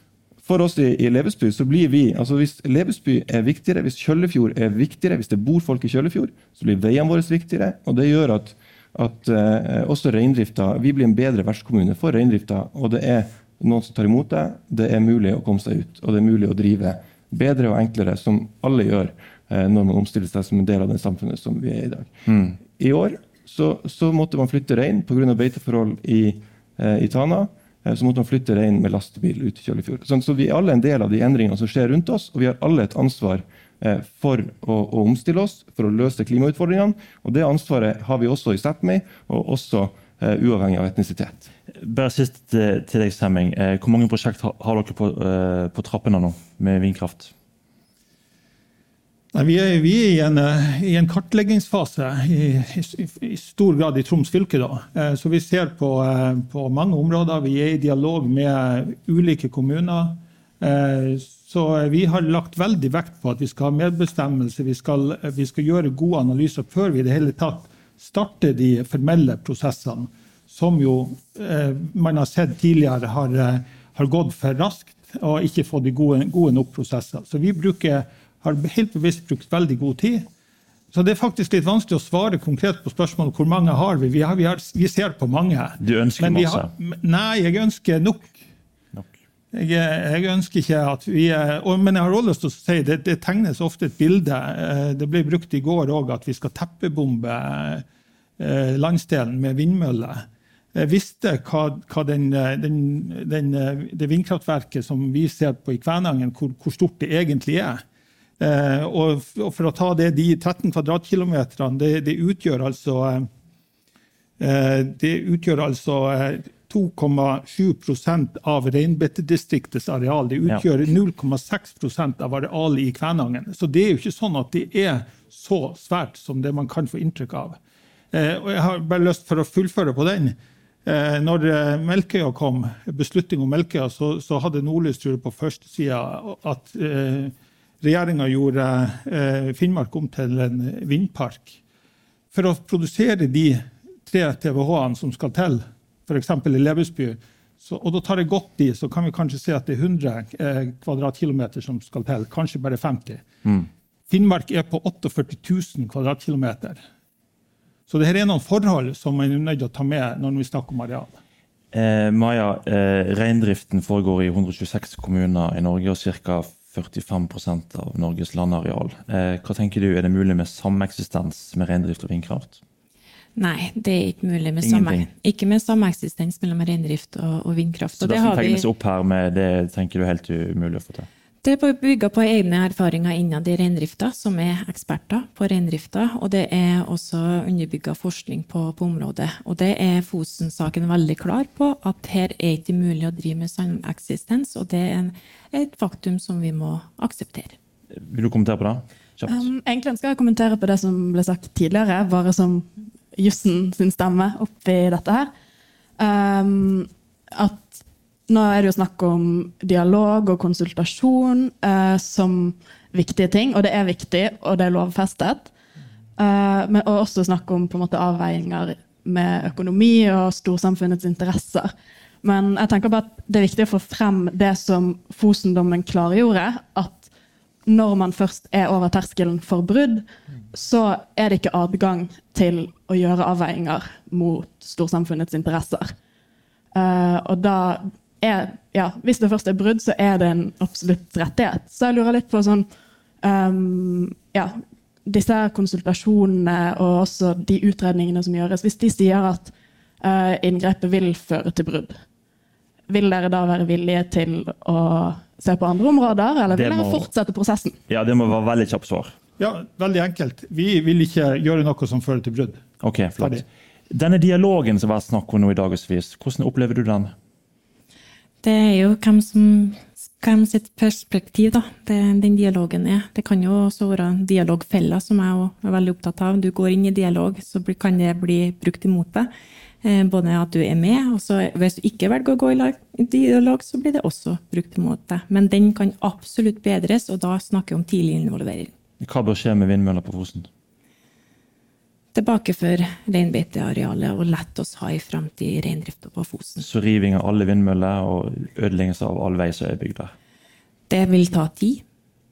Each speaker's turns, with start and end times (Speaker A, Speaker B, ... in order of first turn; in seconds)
Speaker A: 0.5-41.5
Speaker B: 22.3-22.6, 41.8-47.3, 85.8-86.7, 161.7-172.6, 174.6-175.1, 178.0-181.1, 197.9-199.5, 256.5-257.1, 257.9-259.1, 262.8-267.1, 289.0-290.5, 296.6-300.1
Speaker C: 49.3-80.3, 80.9-88.4, 89.5-97.8, 98.4-107.8, 108.4-113.3, 114.4-127.6, 128.1-141.6, 142.3-153.2, 154.1-156.8, 157.9-161.2, 259.4-262.6
Speaker D: 173.4-178.7, 181.4-197.6, 268.4-279.3, 279.8-288.7, 292.1-296.6, 300.9-301.8
Speaker E: 199.3-205.3, 206.0-215.5, 216.2-221.7, 222.2-227.1, 227.7-235.9, 236.7-242.7, 243.2-252.0, 252.9-257.8